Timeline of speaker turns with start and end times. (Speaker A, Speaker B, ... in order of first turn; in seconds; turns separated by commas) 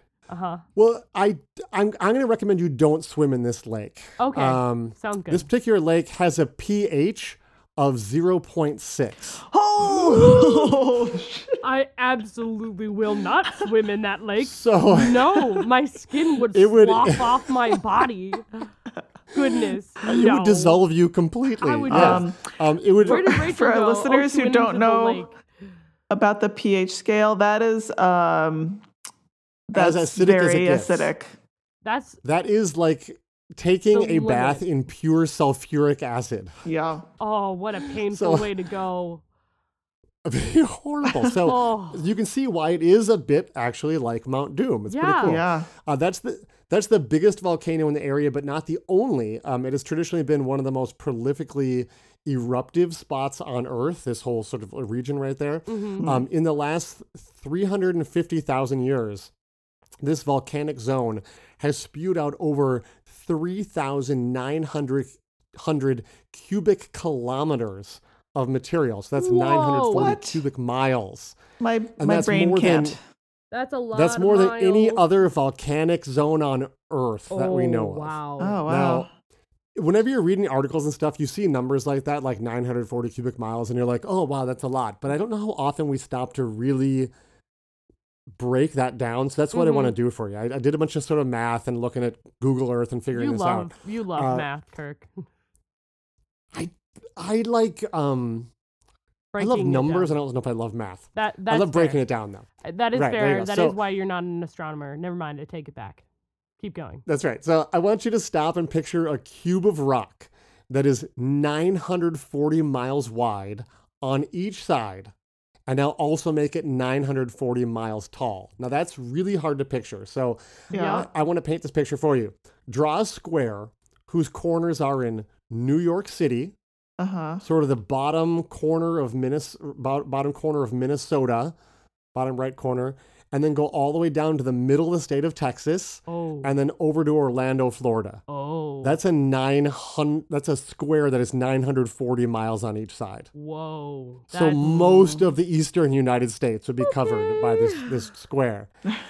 Speaker A: 0.3-0.6, Speaker B: 0.8-9.4, Speaker A: 4.2-5.5, Speaker C: 9.4-11.6, Speaker A: 10.3-10.7, Speaker A: 11.6-18.7, Speaker B: 14.4-15.4, Speaker B: 16.5-17.5, Speaker A: 19.3-20.8, Speaker B: 20.1-23.2, Speaker A: 21.6-22.3, Speaker C: 21.9-22.5, Speaker C: 23.0-25.3, Speaker A: 23.0-25.4, Speaker C: 26.1-28.9, Speaker C: 29.7-31.4, Speaker B: 29.7-31.1, Speaker A: 31.8-32.2, Speaker B: 32.2-36.5, Speaker A: 33.9-34.6, Speaker C: 36.6-37.1, Speaker A: 37.2-39.2, Speaker B: 38.1-38.5, Speaker B: 40.3-59.3, Speaker A: 41.4-42.0, Speaker A: 44.9-45.4, Speaker C: 45.2-45.7, Speaker A: 55.7-56.1, Speaker B: 60.0-71.4, Speaker A: 69.2-70.2, Speaker C: 69.9-70.4, Speaker C: 71.6-73.0, Speaker B: 72.0-73.0, Speaker A: 73.5-75.0, Speaker B: 73.9-79.1, Speaker A: 77.3-78.6, Speaker C: 78.4-79.1, Speaker B: 79.8-87.1, Speaker B: 88.3-94.5, Speaker A: 89.5-90.0, Speaker A: 93.1-95.2, Speaker B: 96.5-98.5, Speaker A: 99.3-100.2, Speaker B: 99.4-103.8, Speaker A: 101.2-102.0, Speaker A: 102.6-106.0, Speaker A: 106.6-107.0, Speaker B: 107.1-115.1, Speaker B: 115.7-126.5, Speaker C: 120.7-121.1, Speaker A: 120.7-121.1, Speaker C: 127.0-127.4, Speaker B: 127.4-131.6, Speaker B: 132.2-138.2, Speaker A: 136.1-136.5, Speaker A: 138.3-139.0, Speaker B: 138.8-143.3, Speaker A: 143.3-145.2, Speaker B: 144.3-148.7, Speaker A: 146.8-148.1